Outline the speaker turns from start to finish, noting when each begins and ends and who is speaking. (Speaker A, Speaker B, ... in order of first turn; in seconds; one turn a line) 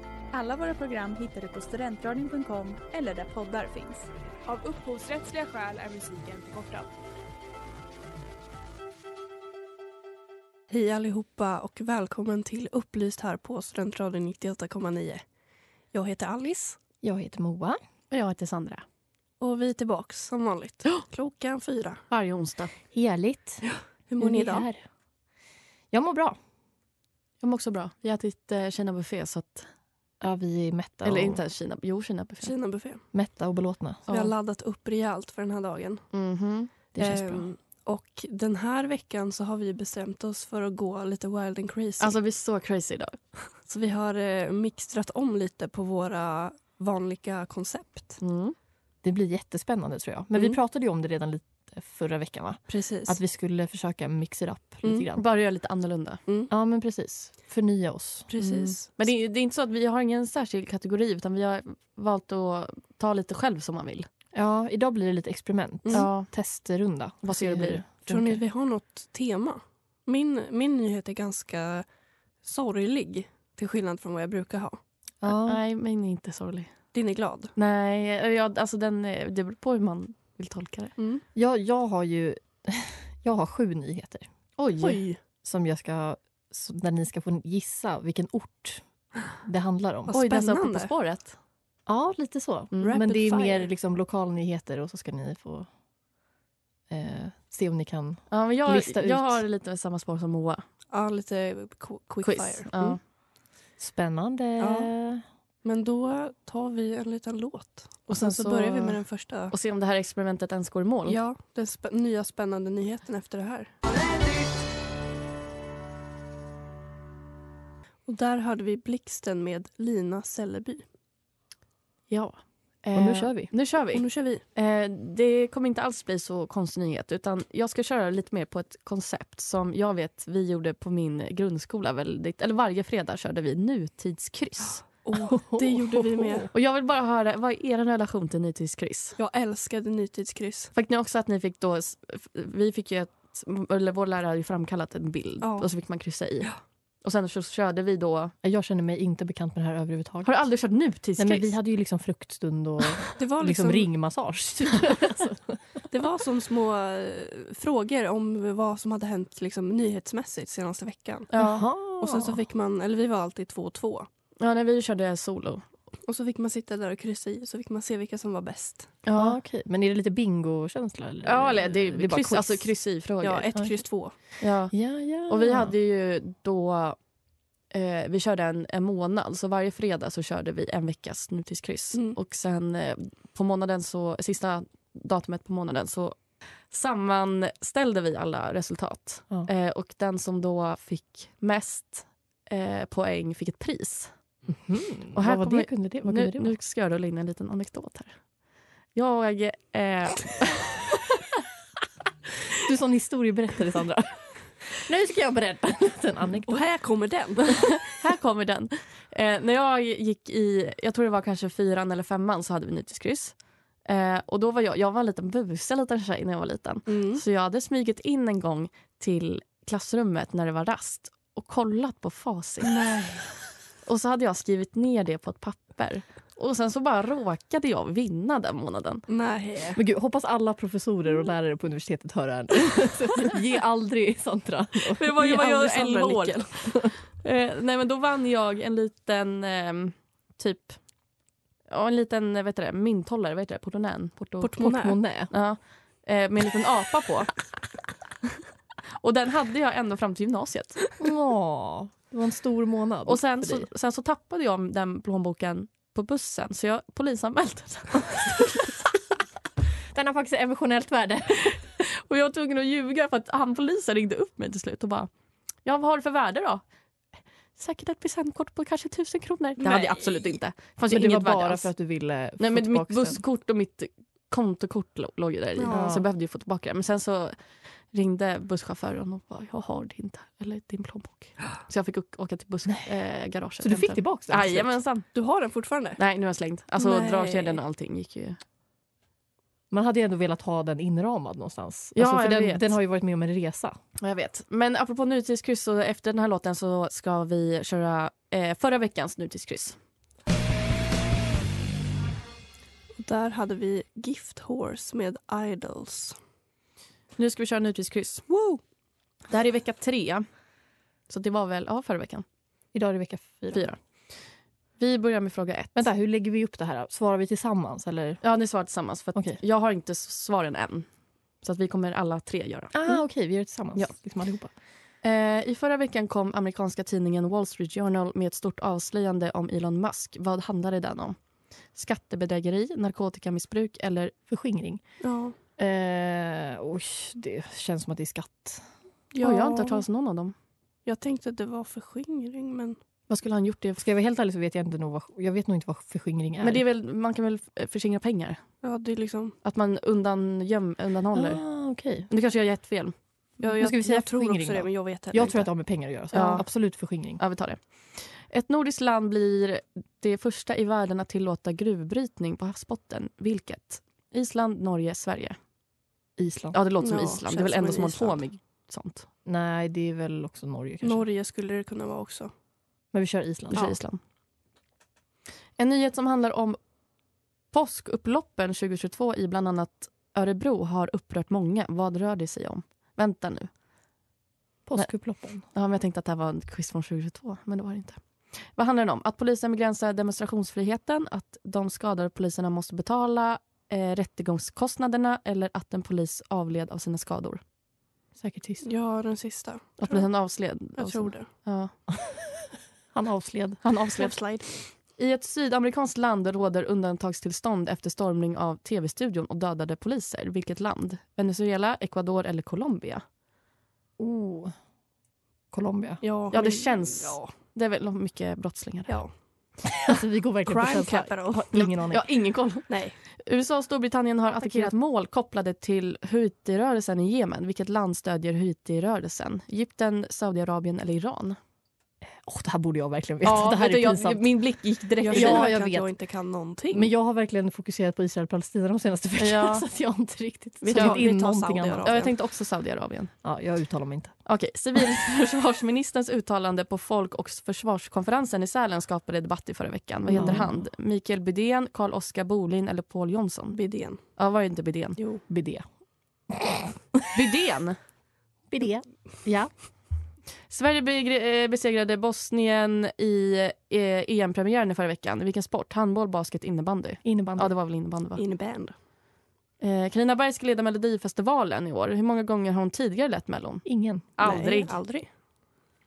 Speaker A: 0.3-4.1
Speaker B: 4.5-6.9
Speaker C: 10.7-15.2
Speaker C: 15.9-16.8
Speaker D: 17.0-17.8
Speaker E: 18.1-18.8
Speaker C: 19.4-22.0
Speaker E: 22.1-22.7
Speaker D: 22.9-23.6
Speaker C: 23.6-24.7
Speaker D: 24.2-24.8
Speaker D: 25.9-26.4
Speaker E: 27.4-29.7
Speaker D: 30.2-31.4
Speaker E: 31.0-32.5
Speaker C: 32.4-33.0
Speaker D: 33.1-34.0
Speaker C: 34.1-36.0
Speaker E: 36.1-36.7
Speaker D: 36.9-37.5
Speaker C: 37.0-42.1
Speaker E: 42.0-43.5
Speaker C: 43.7-48.2
Speaker E: 48.2-48.5
Speaker D: 49.0-55.2
Speaker C: 52.7-53.2
Speaker C: 54.8-55.1
Speaker E: 55.1-56.2
Speaker D: 56.5-58.3
Speaker C: 58.3-58.9
Speaker E: 58.4-64.1
Speaker D: 64.3-68.4
Speaker E: 65.9-66.3
Speaker E: 67.2-67.8
Speaker C: 68.0-71.8
Speaker C: 72.4-74.8
Speaker D: 75.2-75.6
Speaker E: 75.2-76.7
Speaker C: 76.9-77.5
Speaker E: 77.5-80.9
Speaker C: 81.0-81.2
Speaker D: 81.3-84.3
Speaker E: 84.6-85.0
Speaker C: 84.8-85.2
Speaker D: 85.4-90.1
Speaker C: 90.1-90.9
Speaker E: 90.1-91.3
Speaker D: 91.9-95.7
Speaker E: 92.7-93.0
Speaker C: 92.8-93.7
Speaker D: 96.9-99.4
Speaker E: 98.3-100.6
Speaker C: 100.9-103.0
Speaker E: 102.2-103.0
Speaker D: 103.8-105.2
Speaker C: 104.6-104.9
Speaker C: 105.6-109.5
Speaker E: 108.1-111.2
Speaker C: 111.0-113.7
Speaker C: 118.0-120.8
Speaker E: 122.1-134.8
Speaker D: 122.9-123.5
Speaker C: 123.9-124.4
Speaker C: 134.9-136.5
Speaker D: 135.2-136.5
Speaker E: 136.5-139.2
Speaker C: 139.2-140.7
Speaker E: 140.7-146.5
Speaker C: 145.4-145.7
Speaker E: 147.0-148.3
Speaker D: 148.4-150.4
Speaker E: 150.2-151.5
Speaker D: 151.2-155.6
Speaker C: 153.2-153.9
Speaker C: 155.9-161.3
Speaker E: 161.3-161.7
Speaker D: 161.4-162.4
Speaker C: 162.0-164.1
Speaker E: 164.4-165.7
Speaker C: 166.0-168.9
Speaker E: 169.0-169.4
Speaker D: 169.1-172.7
Speaker E: 171.2-173.5
Speaker C: 173.2-174.1
Speaker E: 174.4-177.0
Speaker D: 174.7-175.7
Speaker E: 177.7-186.2
Speaker E: 186.7-194.1
Speaker D: 194.5-196.5
Speaker E: 195.1-198.2
Speaker E: 198.9-200.7
Speaker D: 202.6-206.6
Speaker C: 206.4-207.8
Speaker E: 208.0-222.8
Speaker C: 216.9-217.2
Speaker C: 222.6-223.2
Speaker E: 223.8-229.0
Speaker C: 229.1-229.8
Speaker D: 229.8-235.0
Speaker E: 235.0-240.8
Speaker C: 235.2-236.5
Speaker E: 241.7-244.6
Speaker C: 244.4-245.0
Speaker D: 244.6-245.3
Speaker E: 245.3-247.3
Speaker E: 248.9-250.8
Speaker D: 251.0-253.7
Speaker E: 253.1-258.7
Speaker D: 259.9-261.6
Speaker E: 261.5-265.1
Speaker E: 265.6-266.6
Speaker E: 267.5-271.7
Speaker C: 269.6-270.4
Speaker D: 270.9-273.2
Speaker E: 272.4-285.1
Speaker C: 275.6-275.9
Speaker D: 275.7-276.0
Speaker D: 282.6-282.9
Speaker D: 283.6-284.8
Speaker C: 285.1-286.0
Speaker E: 286.0-288.4
Speaker C: 286.8-287.6
Speaker D: 289.7-293.8
Speaker E: 291.9-292.7
Speaker E: 294.0-299.8
Speaker C: 303.0-306.2
Speaker E: 307.2-308.3
Speaker E: 309.3-310.2
Speaker E: 311.1-312.2
Speaker D: 312.7-313.7
Speaker E: 313.5-313.8
Speaker E: 314.8-315.9
Speaker D: 315.7-318.2
Speaker E: 318.2-320.9
Speaker D: 319.1-319.4
Speaker E: 321.4-323.0
Speaker D: 322.7-324.5
Speaker E: 325.0-331.1
Speaker E: 331.7-334.1
Speaker D: 334.3-334.8
Speaker C: 335.0-335.3
Speaker D: 335.6-338.6
Speaker C: 339.1-339.8
Speaker E: 339.2-340.3
Speaker C: 340.9-342.8
Speaker E: 343.1-343.8
Speaker D: 343.8-346.6
Speaker E: 346.4-348.4
Speaker C: 348.6-349.4
Speaker E: 349.4-351.4
Speaker D: 351.1-352.1
Speaker E: 352.1-353.5
Speaker C: 353.4-355.5
Speaker D: 353.6-357.2
Speaker E: 356.1-365.4
Speaker D: 366.2-366.6
Speaker E: 366.5-369.1
Speaker C: 366.8-368.2
Speaker D: 369.2-371.1
Speaker C: 370.8-372.3
Speaker D: 372.9-373.8
Speaker E: 373.5-374.0
Speaker E: 375.6-376.6
Speaker E: 377.5-383.5
Speaker D: 384.6-385.4
Speaker E: 385.5-397.4
Speaker D: 398.2-398.6
Speaker C: 398.6-400.1
Speaker E: 399.8-401.7
Speaker C: 400.7-401.3
Speaker D: 402.9-404.1
Speaker E: 403.6-404.1
Speaker C: 403.9-404.5
Speaker E: 405.0-413.0
Speaker D: 414.0-414.5
Speaker D: 415.5-416.0
Speaker C: 416.0-417.3
Speaker E: 416.3-418.9
Speaker D: 419.8-422.1
Speaker C: 420.4-421.5
Speaker E: 421.5-431.4
Speaker C: 422.7-422.9
Speaker D: 432.0-434.3
Speaker E: 433.2-435.5
Speaker C: 435.0-436.9
Speaker D: 435.1-435.9
Speaker D: 436.7-441.9
Speaker E: 439.2-439.6
Speaker C: 440.6-442.1
Speaker E: 440.7-441.0
Speaker E: 441.8-443.1
Speaker D: 443.2-444.1
Speaker E: 444.2-453.6
Speaker C: 450.1-450.4
Speaker D: 450.1-450.5
Speaker C: 453.5-454.0
Speaker E: 454.1-455.0
Speaker D: 455.3-455.6
Speaker D: 456.3-456.8
Speaker E: 457.1-457.8
Speaker D: 458.5-459.5
Speaker E: 460.5-468.2
Speaker D: 467.0-467.5
Speaker C: 468.1-468.7
Speaker E: 469.6-474.7
Speaker D: 473.6-474.1
Speaker C: 474.2-475.1